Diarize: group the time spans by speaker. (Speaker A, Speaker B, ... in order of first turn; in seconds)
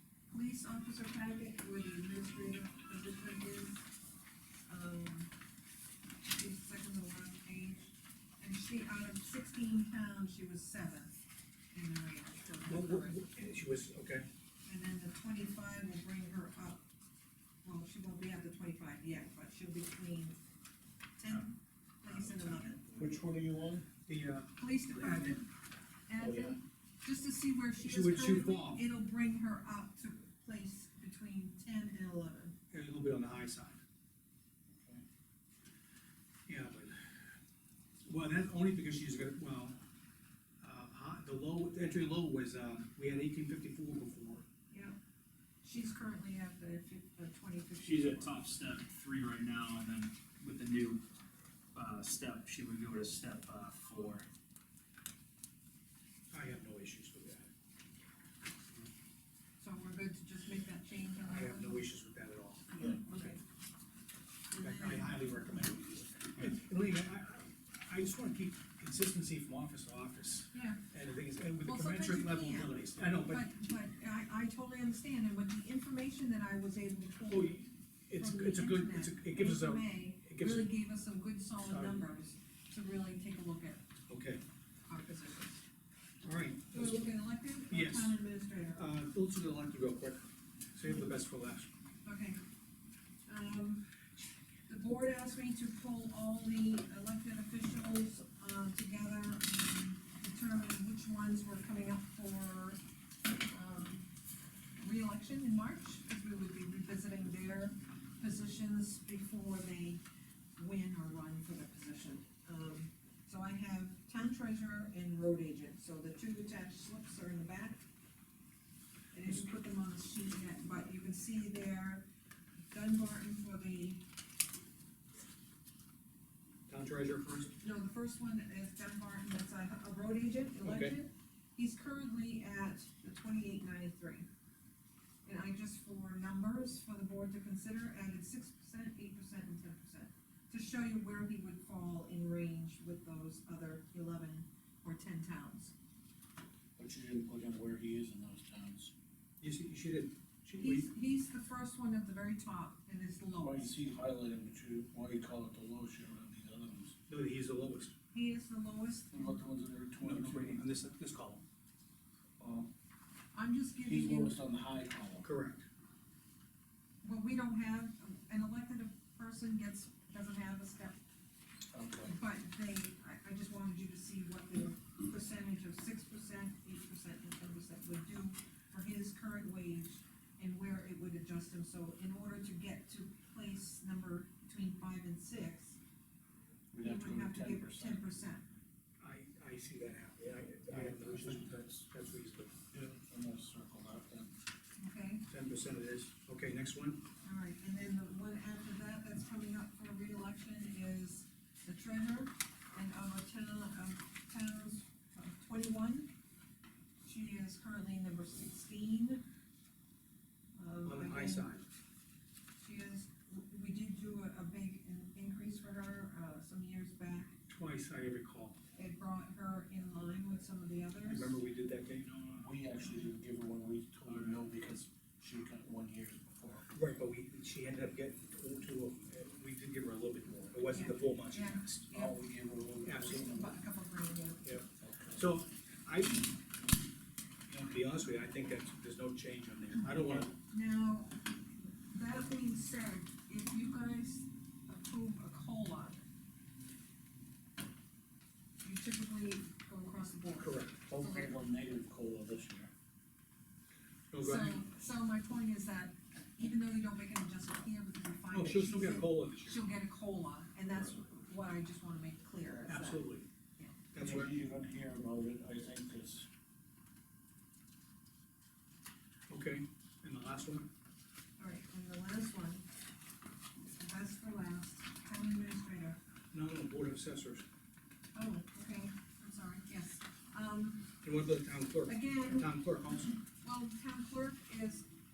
Speaker A: 0.3-3.9, 4.7-5.3, 6.3-11.1, 11.7-13.2, 14.7-16.9, 17.6-20.4, 21.2-22.9, 24.6-25.5, 26.1-32.5, 44.7-45.0, 45.6-48.4, 59.6-61.8, 62.8-63.4, 64.5-65.2, 70.5-70.8, 71.6-83.8, 84.9-85.6, 86.7-88.8, 92.0-92.4, 93.3-93.8, 94.7-102.8, 103.5-104.1, 104.8-110.0, 110.6-117.8, 119.1-122.0, 122.7-124.0, 127.6-134.3, 135.2-145.7, 150.6-153.8, 158.1-159.4, 163.3-164.4, 167.0-171.0, 172.0-185.8, 186.8-188.4, 194.8-195.2, 197.2-206.1, 207.0-209.2, 210.6-211.5, 212.6-217.3, 218.8-221.3, 230.7-232.2, 233.0-234.4, 240.1-246.0, 248.6-251.4, 254.2-263.1, 263.6-263.8, 271.4-272.6, 273.6-276.0, 278.1-280.9, 281.9-282.5, 283.1-284.9
Speaker B: 12.7-14.3, 22.1-23.1, 24.1-25.4, 27.8-28.8, 32.7-33.8, 36.5-37.2, 38.0-39.8, 40.6-44.5, 56.3-57.5, 61.2-62.9, 64.6-73.5, 77.3-80.7, 81.7-82.0, 84.1-84.4, 86.2-87.0, 87.7-88.2, 88.8-91.7, 126.7-127.6, 130.6-130.9, 149.4-150.9, 157.1-157.9, 160.0-161.4, 165.2-165.7, 189.0-192.6, 195.3-197.0, 210.8-211.7, 217.5-218.6, 221.1-222.1, 226.7-231.9, 232.8-233.2, 234.4-236.3, 237.5-240.3, 250.4-250.8, 254.1-254.6, 258.3-259.6, 262.6-263.3, 263.9-264.3, 269.3-270.7, 276.3-277.5, 281.0-283.2
Speaker C: 23.0-23.9, 26.2-26.6, 34.7-35.0, 146.8-148.9, 153.4-157.0, 159.1-160.7, 162.4-162.7, 163.8-165.3, 171.7-172.2, 186.7-188.0, 190.7-191.8, 192.7-194.3, 222.3-226.7, 231.9-233.6, 234.8-235.2, 250.8-252.7, 264.0-266.3
Speaker D: 47.8-51.0, 51.7-54.3, 224.1-224.4